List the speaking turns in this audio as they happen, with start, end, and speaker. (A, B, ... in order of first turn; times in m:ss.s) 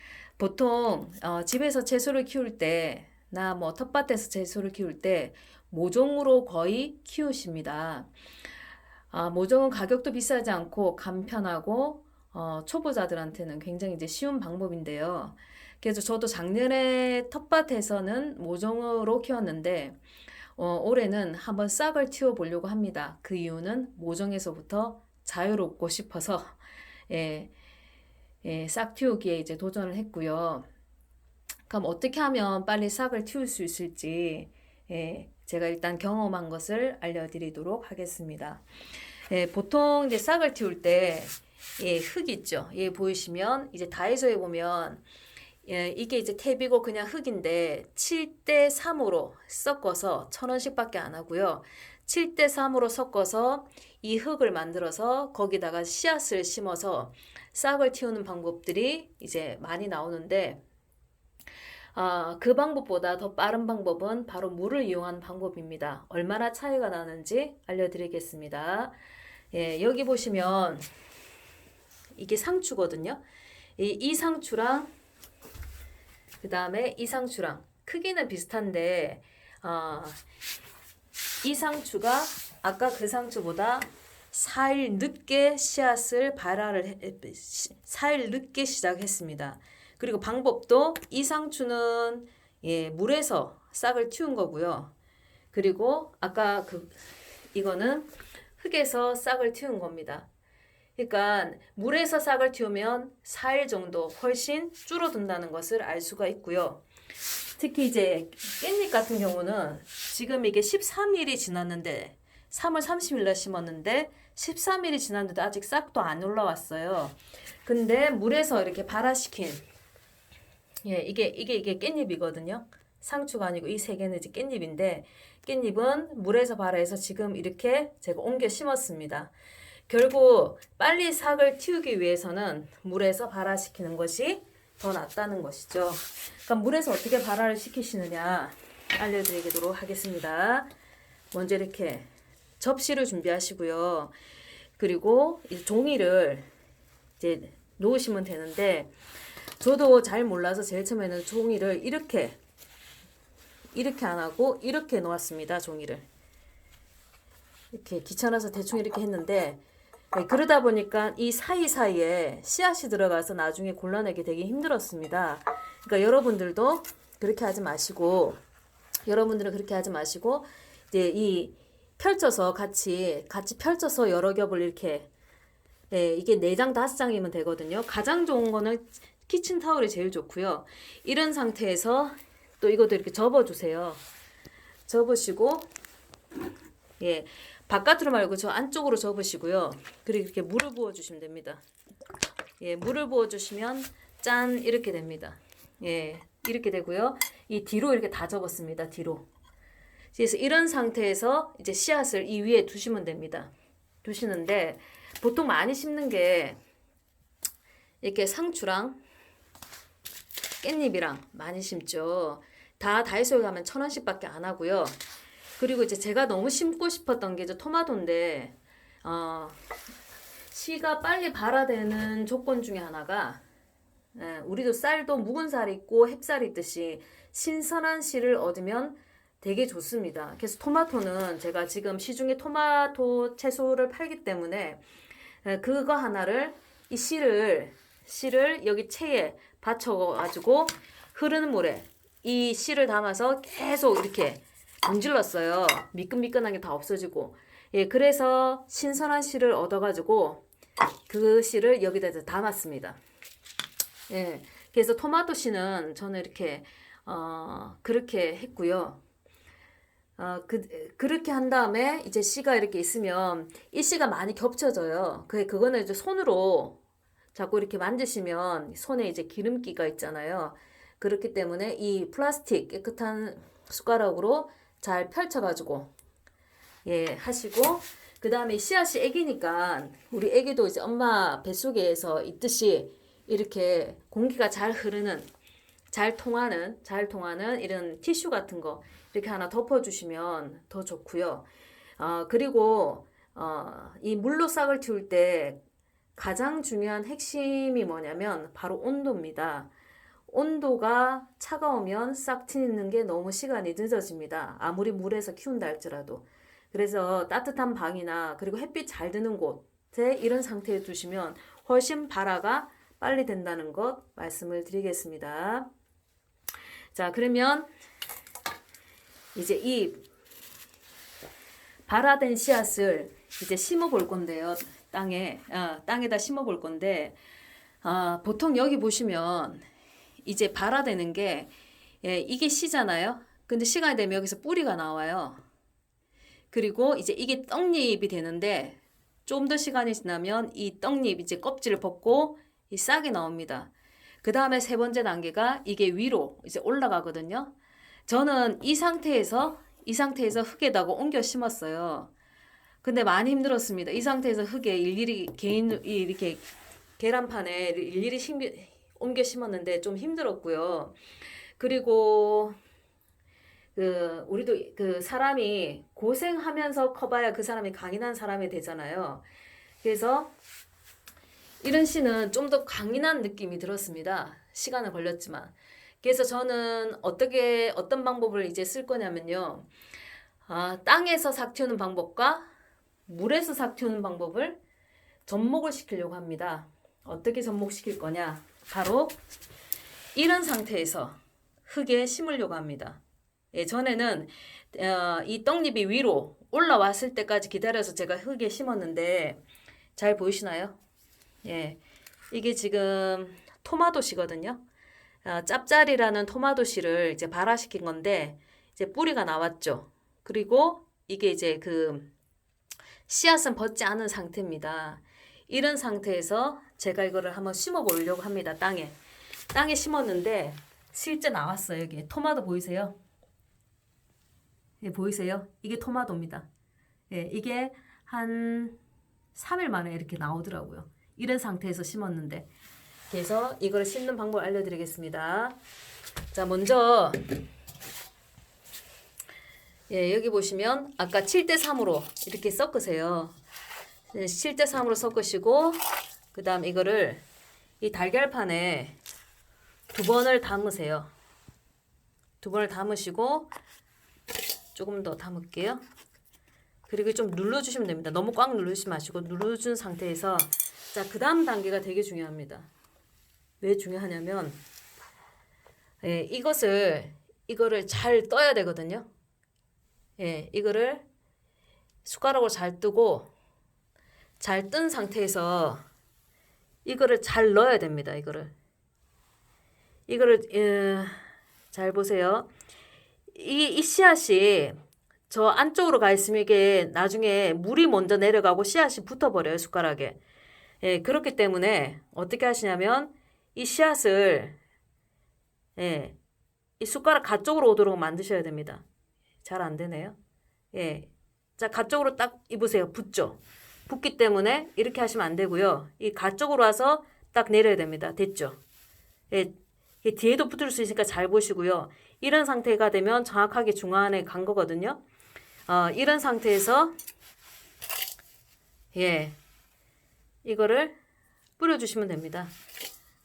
0:00.4-0:08.1 A
0:09.1-0:20.0 A
0:20.6-0:26.6 A
0:27.1-0:27.5 A
0:28.4-0:30.6 A
0:31.7-0:38.6 A
0:39.3-0:45.0 A
0:45.6-1:00.6 A
1:01.9-1:08.9 A
1:09.5-1:10.9 A
1:12.2-1:13.2 A
1:13.8-1:14.9 A
1:16.4-1:20.2 A
1:21.4-1:34.9 A
1:35.5-1:36.9 A
1:37.5-1:40.3 A
1:41.0-1:46.8 A
1:47.6-1:59.6 A
2:00.8-2:09.3 A
2:09.9-2:20.7 A
2:21.3-2:22.1 A
2:22.6-2:24.1 A
2:24.8-2:26.5 A
2:27.2-2:28.9 A
2:29.6-2:32.4 A
2:33.7-2:36.0 A
2:37.7-2:39.6 A
2:40.1-2:48.4 A
2:49.1-2:55.1 A
2:55.9-3:04.0 A
3:04.9-3:05.7 A
3:07.0-3:11.6 A
3:12.6-3:19.3 A
3:20.1-3:23.5 A
3:24.0-3:26.6 A
3:28.0-3:29.0 A
3:30.6-3:35.0 A
3:35.6-3:39.6 A
3:40.5-3:43.4 A
3:44.1-3:54.8 A
3:55.4-4:10.4 A
4:11.1-4:13.0 A
4:14.1-4:19.0 A
4:20.2-4:26.8 A
4:27.3-4:35.9 A
4:36.8-4:45.3 A
4:45.9-4:51.4 A
4:52.0-4:55.6 A
4:56.2-4:59.7 A
5:00.3-5:15.7 A
5:16.9-5:17.7 A
5:19.3-5:20.0 A
5:21.9-5:27.2 A
5:27.8-5:29.6 A
5:30.2-5:31.5 A
5:32.0-5:35.4 A
5:36.5-5:43.7 A
5:44.2-5:47.5 A
5:48.1-5:52.1 A
5:52.8-5:56.4 A
5:57.0-6:01.0 A
6:01.6-6:02.5 A
6:03.8-6:09.2 A
6:09.8-6:10.3 A
6:11.6-6:19.7 A
6:20.5-6:22.5 A
6:23.1-6:24.6 A
6:25.3-6:29.2 A
6:30.1-6:33.0 A
6:33.5-6:39.4 A
6:40.0-6:40.8 A
6:41.4-6:41.8 A
6:42.3-6:44.6 A
6:45.2-6:52.1 A
6:53.1-6:59.0 A
6:59.5-7:03.0 A
7:04.8-7:06.5 A
7:07.1-7:08.8 A
7:09.3-7:12.5 A
7:13.1-7:15.6 A
7:16.3-7:17.2 A
7:19.9-7:23.3 A
7:24.1-7:25.8 A
7:26.3-7:27.2 A
7:27.8-7:29.0 A
7:29.9-7:31.1 A
7:32.4-7:33.5 A
7:34.7-7:35.8 A
7:36.9-7:42.7 A
7:43.6-7:44.6 A
7:46.0-7:49.1 A
7:50.2-7:51.0 A
7:52.0-7:53.3 A
7:54.4-7:55.8 A
7:56.8-7:58.5 A
8:00.1-8:02.5 A
8:03.3-8:04.8 A
8:05.3-8:10.2 A
8:10.8-8:14.6 A
8:15.8-8:16.2 A
8:16.8-8:18.8 A
8:19.4-8:20.2 A
8:20.7-8:28.6 A
8:29.3-8:35.0 A
8:35.7-8:36.9 A
8:38.9-8:39.4 A
8:40.4-8:40.9 A
8:41.6-8:42.5 A